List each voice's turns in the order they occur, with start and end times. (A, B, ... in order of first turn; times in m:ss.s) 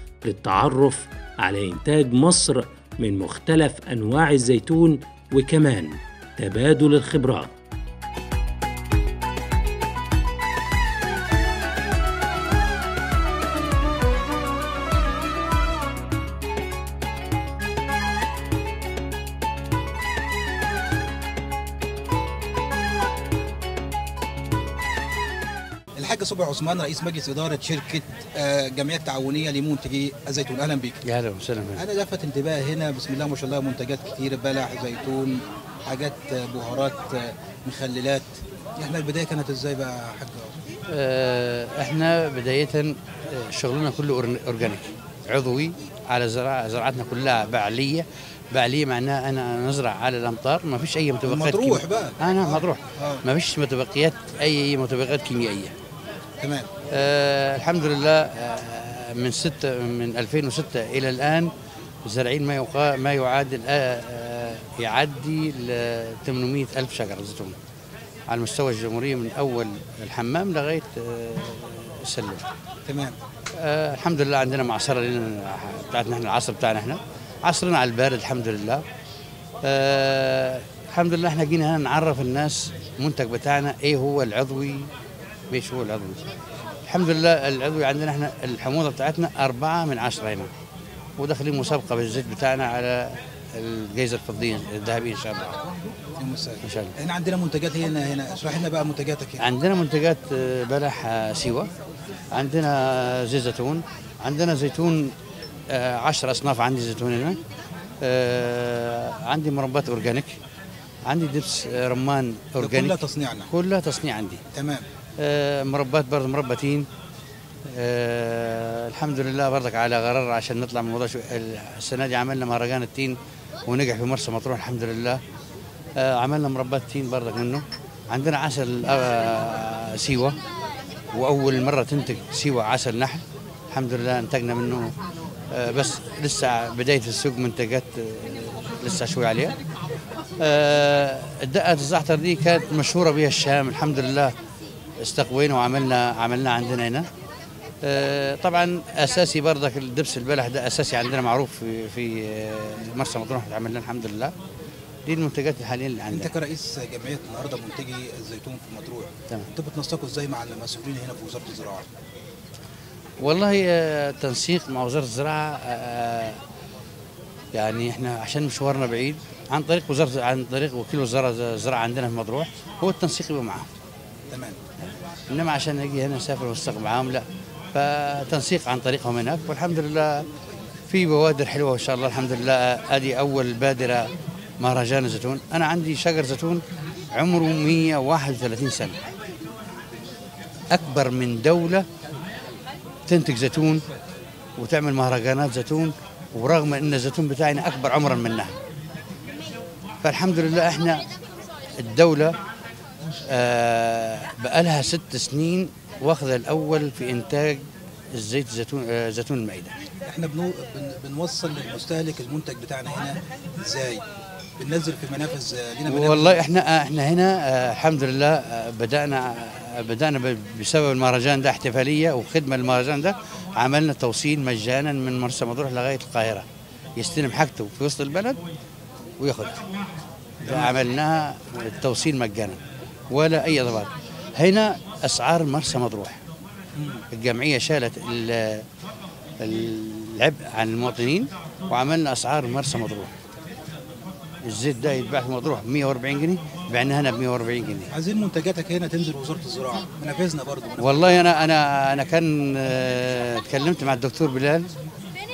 0:00.2-0:07.6 A
0:26.0-0:31.0 B
0:31.0-0:31.8 C
0:31.8-0:40.6 B
0:40.9-0:55.8 C
0:51.3-0:53.2 B
0:56.4-0:56.7 B
0:56.9-1:01.5 C
1:02.0-1:07.6 C
1:08.3-1:12.5 C
1:12.9-1:13.2 B
1:13.6-1:18.8 C
1:19.6-1:24.9 C
1:25.5-1:26.2 C
1:26.9-1:30.5 C
1:31.2-1:35.6 C
1:36.2-1:39.4 B
1:36.6-1:36.9 C
1:39.4-1:41.7 C
1:42.3-1:45.2 C
1:45.7-1:47.4 C
1:48.0-1:50.4 C
1:51.1-1:53.0 C
1:52.6-1:53.5 B
1:53.5-1:54.4 C
1:54.5-1:54.8 B
1:55.2-1:56.9 C
1:57.7-2:05.2 C
2:06.0-2:10.4 C
2:11.1-2:15.0 C
2:15.5-2:19.6 C
2:20.4-2:24.3 C
2:25.0-2:27.1 C
2:27.8-2:34.3 C
2:35.0-2:36.3 C
2:36.1-2:41.9 B
2:43.2-2:46.4 C
2:47.5-2:53.7 C
2:54.3-2:54.6 B
2:55.3-3:00.3 C
3:00.9-3:09.0 C
3:10.7-3:11.9 C
3:13.1-3:13.8 C
3:14.6-3:18.6 C
3:20.0-3:21.1 C
3:21.8-3:22.4 C
3:23.3-3:29.8 C
3:30.1-3:34.0 B
3:34.6-3:36.4 B
3:35.9-3:48.4 C
3:49.2-3:49.6 C
3:50.4-3:56.2 C
3:50.5-3:50.7 B
3:56.8-3:57.0 B
3:57.1-3:58.6 C
3:59.4-4:03.1 C
4:04.4-4:07.9 C
4:07.9-4:10.8 B
4:10.8-4:14.7 C